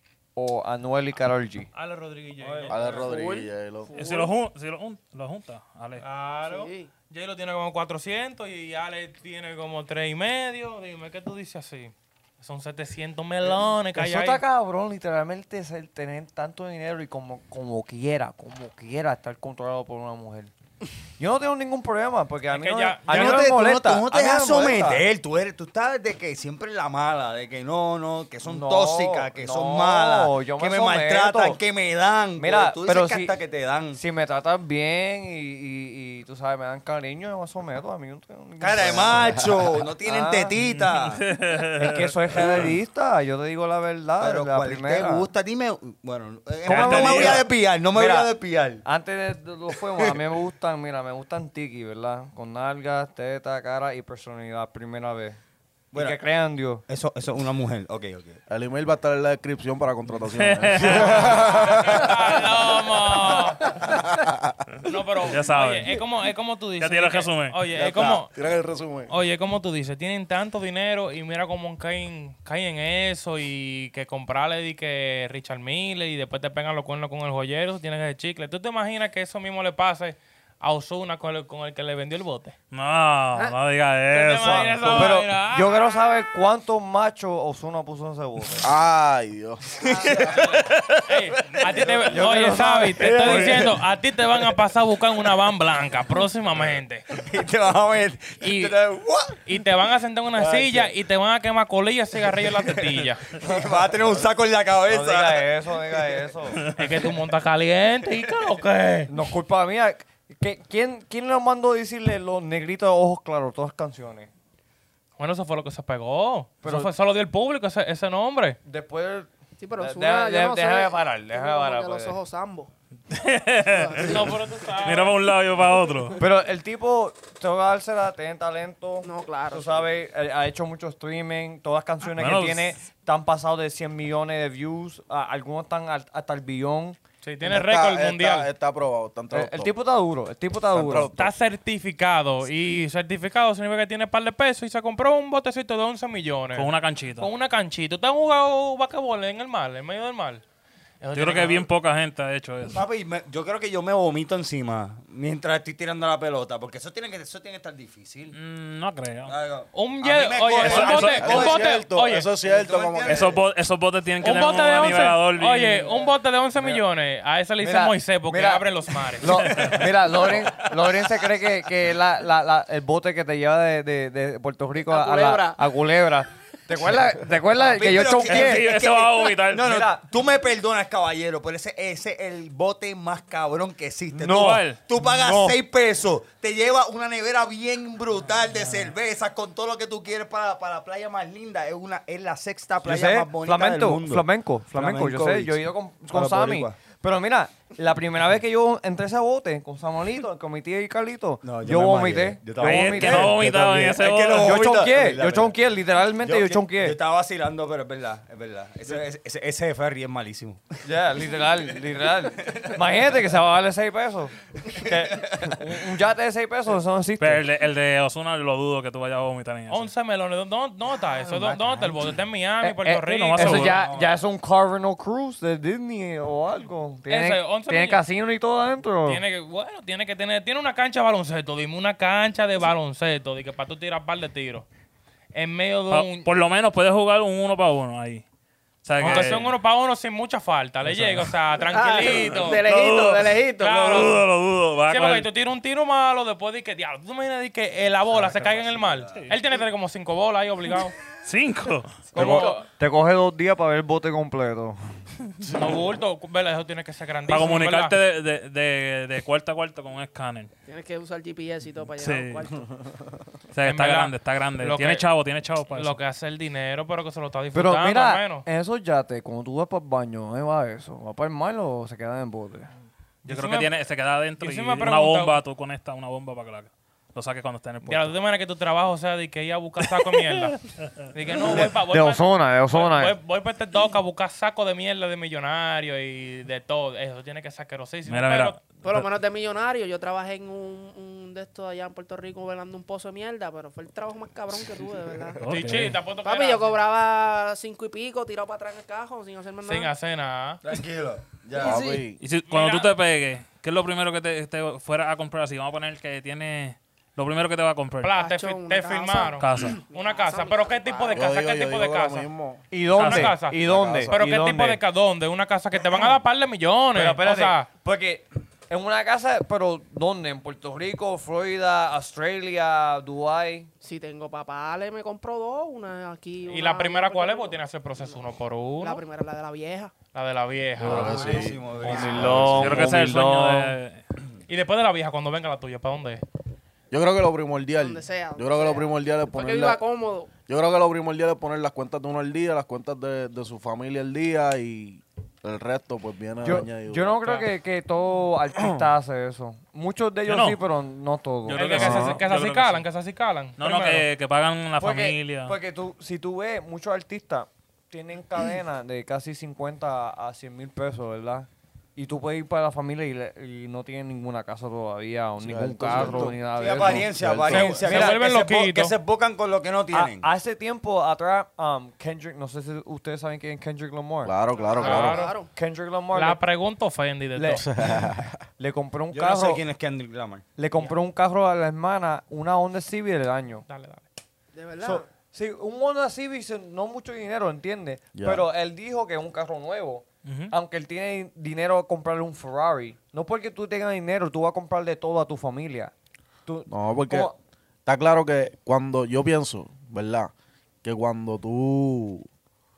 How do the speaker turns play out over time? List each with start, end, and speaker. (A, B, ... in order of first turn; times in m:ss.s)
0:00.4-0:01.7 A
0:01.7-0:03.0 B
0:02.7-0:03.9 C
0:02.9-0:04.3 D
0:04.0-0:06.0 E
0:06.0-0:14.4 B
0:06.4-0:06.9 D
0:14.0-0:20.5 A
0:21.2-0:25.0 A
0:22.5-0:23.5 B
0:23.1-0:34.0 F
0:28.4-0:31.6 A
0:32.4-0:33.3 A
0:33.9-0:39.5 A
0:38.6-0:41.3 F
0:38.9-0:39.4 C
0:40.0-0:40.6 A
0:40.8-0:42.6 E
0:41.8-0:45.3 A
0:44.2-0:48.8 F
0:46.7-0:48.3 A
0:46.7-0:47.5 E
0:48.8-0:55.4 A
0:55.9-0:56.2 F
0:55.9-0:56.8 A
0:56.9-0:58.4 F
0:58.5-1:02.4 C
1:00.3-1:01.4 E
1:01.0-1:03.8 B
1:03.8-1:04.6 C
1:04.8-1:08.3 B
1:05.3-1:06.0 E
1:06.8-1:07.6 E
1:07.7-1:09.1 C
1:09.1-1:22.6 B
1:22.7-1:25.2 E
1:24.1-1:25.8 B
1:24.4-1:28.7 A
1:28.6-1:30.4 C
1:29.9-1:32.2 F
1:30.2-1:37.1 B
1:32.0-1:33.7 A
1:33.0-1:33.7 F
1:37.1-1:39.4 F
1:38.4-1:38.7 B
1:39.4-1:43.2 B
1:42.6-1:46.2 F
1:44.9-1:46.7 A
1:46.7-1:49.1 B
1:49.1-1:54.3 A
1:55.2-1:58.6 B
1:56.6-1:56.9 A
1:58.6-2:02.2 A
1:59.6-2:02.7 D
2:03.1-2:06.2 E
2:03.7-2:04.2 D
2:04.0-2:05.2 B
2:06.2-2:17.0 A
2:09.0-2:09.9 D
2:12.1-2:12.7 E
2:17.2-2:18.5 B
2:17.4-2:19.7 C
2:19.3-2:21.1 A
2:20.7-2:21.3 C
2:21.2-2:30.4 B
2:26.5-2:27.3 E
2:31.0-2:31.7 B
2:31.1-2:32.8 E
2:32.7-2:38.4 F
2:38.3-2:39.3 E
2:39.3-2:41.7 F
2:39.7-2:42.3 B
2:40.6-2:41.5 E
2:41.2-2:43.4 C
2:42.4-2:43.4 F
2:43.1-2:45.9 E
2:44.2-2:49.4 B
2:47.6-2:58.7 A
2:49.5-2:49.8 E
2:50.1-2:50.8 F
2:54.9-2:55.6 D
2:57.6-3:16.8 F
2:58.2-2:59.8 E
2:59.6-3:00.0 A
3:04.1-3:05.6 A
3:04.3-3:04.8 E
3:12.8-3:23.7 A
3:21.4-3:25.6 F
3:22.6-3:24.7 E
3:24.3-3:27.0 A
3:26.2-3:30.8 F
3:30.8-3:37.4 A
3:32.4-3:32.8 F
3:34.7-3:35.6 F
3:37.2-3:39.9 E
3:39.7-3:43.7 B
3:41.2-3:41.9 A
3:42.6-3:49.2 A
3:42.9-3:43.8 E
3:43.6-3:44.2 F
3:47.1-3:48.0 B
3:49.1-3:54.7 B
3:55.3-3:56.3 B
3:55.9-3:58.2 E
3:58.8-3:59.5 E
3:59.0-4:02.6 B
4:00.8-4:01.3 E
4:01.7-4:04.2 D
4:02.1-4:05.3 E
4:03.6-4:04.2 B
4:04.9-4:11.0 B
4:08.2-4:09.2 F
4:09.1-4:09.4 E
4:11.2-4:12.1 E
4:12.1-4:12.7 B
4:12.1-4:12.6 D
4:12.2-4:14.8 A
4:15.4-4:15.8 C
4:15.5-4:18.0 B
4:17.3-4:20.5 E
4:20.7-4:22.7 D
4:22.0-4:22.4 E
4:23.5-4:26.0 E
4:23.6-4:25.1 B
4:25.7-4:28.4 B
4:27.5-4:32.7 A
4:33.2-4:33.7 B
4:33.2-4:38.1 E
4:34.4-4:35.4 B
4:37.9-4:48.6 B
4:41.5-4:43.2 A
4:48.1-4:49.1 E
4:48.8-4:59.9 D
4:55.4-4:56.0 E
4:55.5-4:56.7 B
4:59.6-5:00.6 B
5:00.6-5:01.9 F
5:01.6-5:02.2 C
5:01.6-5:02.0 D
5:02.2-5:08.2 E
5:02.5-5:02.9 B
5:08.0-5:12.3 B
5:08.1-5:11.2 D
5:09.4-5:09.8 E
5:11.2-5:12.6 C
5:12.7-5:14.8 A
5:13.0-5:13.4 E
5:13.0-5:17.7 B
5:13.6-5:14.2 C
5:16.9-5:23.7 A
5:23.8-5:28.2 D
5:26.5-5:29.0 B
5:28.8-5:29.9 D
5:30.1-5:31.4 B
5:30.8-5:33.0 C
5:31.0-5:31.4 D
5:31.1-5:32.7 F
5:31.8-5:33.8 A
5:32.5-5:34.0 E
5:34.5-5:36.2 B
5:36.9-5:39.8 C
5:37.8-5:40.3 D
5:40.5-5:47.2 C
5:46.4-5:52.2 A
5:48.6-5:48.8 C
5:50.3-5:50.6 E
5:51.5-5:52.9 E
5:51.5-5:54.1 B
5:51.8-5:52.2 C
5:53.6-5:55.6 E
5:54.8-6:08.2 A
6:05.4-6:07.8 C
6:05.9-6:06.3 D
6:06.6-6:10.3 F
6:07.5-6:09.0 B
6:09.9-6:14.4 A
6:14.2-6:15.3 C
6:14.6-6:15.5 D
6:14.7-6:15.3 B
6:15.5-6:16.4 A
6:16.1-6:17.6 B
6:17.4-6:18.0 A
6:17.5-6:18.4 C
6:18.6-6:19.6 A
6:19.1-6:20.4 F
6:20.6-6:23.6 A
6:23.7-6:24.0 B
6:24.6-6:25.1 D
6:24.8-6:35.9 A
6:28.2-6:28.4 C
6:30.2-6:30.5 E
6:36.5-6:37.4 A
6:36.7-6:37.3 C
6:37.9-6:40.3 C
6:40.8-6:42.3 C